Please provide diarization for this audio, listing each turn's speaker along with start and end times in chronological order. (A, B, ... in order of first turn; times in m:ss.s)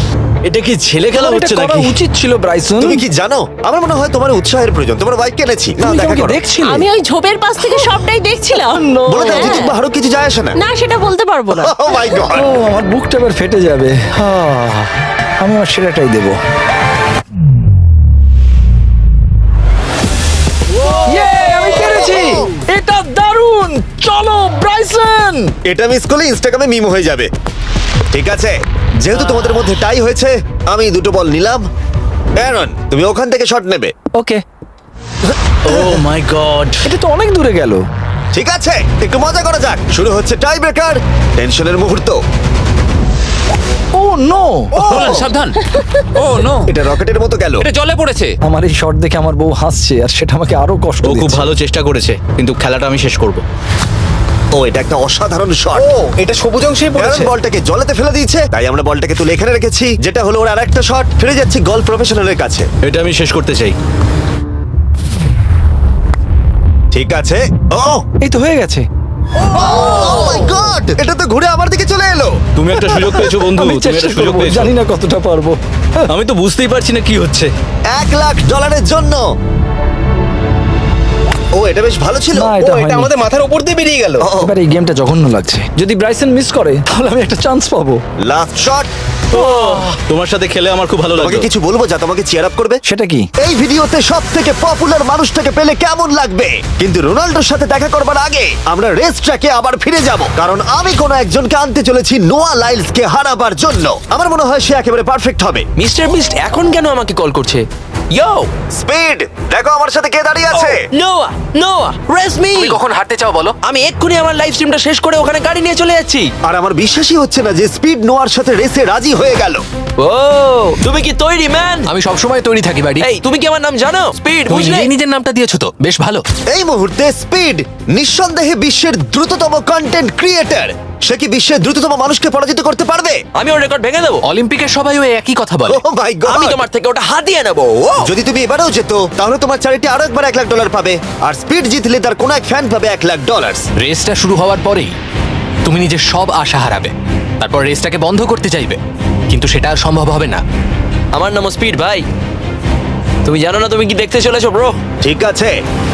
0:00.5-0:02.0 A
0:01.1-0:03.0 B
0:02.8-0:06.4 C
0:05.8-0:06.9 B
0:06.6-0:09.8 D
0:08.6-0:09.7 B
0:09.1-0:10.6 C
0:10.6-0:11.9 D
0:11.5-0:12.5 C
0:12.3-0:16.4 B
0:21.1-0:25.5 B
0:25.7-0:27.3 C
0:28.1-0:31.7 C
0:32.4-0:33.9 C
0:34.2-0:34.4 B
0:35.6-0:36.8 A
0:36.8-0:37.8 B
0:38.3-0:42.2 C
0:43.9-0:45.0 B
0:44.9-0:46.7 E
0:46.7-0:47.6 C
0:47.6-0:48.3 E
0:48.4-0:51.5 B
0:51.0-0:53.4 A
0:54.6-0:55.9 C
0:55.8-0:57.3 F
0:57.0-1:02.7 C
1:02.8-1:03.8 A
1:06.9-1:08.0 C
1:08.2-1:08.9 B
1:09.5-1:12.4 C
1:09.6-1:10.3 B
1:12.6-1:14.7 A
1:12.9-1:16.0 B
1:16.1-1:17.5 A
1:17.9-1:19.2 C
1:21.6-1:22.5 C
1:22.3-1:23.1 B
1:22.6-1:24.3 F
1:24.2-1:24.5 C
1:24.4-1:28.0 B
1:28.2-1:28.9 C
1:29.3-1:31.5 A
1:29.4-1:29.8 B
1:31.2-1:32.8 C
1:32.9-1:33.3 B
1:33.4-1:45.7 C
1:45.8-1:47.6 G
1:47.0-1:47.5 H
1:48.2-1:48.4 H
1:48.7-1:50.8 C
1:50.6-1:52.8 H
1:52.5-1:53.6 G
1:53.6-1:56.3 H
1:56.4-1:59.6 C
2:00.5-2:01.9 H
2:01.8-2:03.2 G
2:03.0-2:04.9 H
2:04.3-2:06.2 G
2:06.5-2:13.2 C
2:13.4-2:14.2 H
2:14.2-2:15.8 G
2:15.7-2:16.6 C
2:16.3-2:18.1 H
2:18.0-2:23.7 C
2:23.8-2:24.9 G
2:25.6-2:28.8 G
2:29.3-2:30.4 G
2:31.1-2:32.0 H
2:33.3-2:34.8 H
2:35.0-2:35.6 C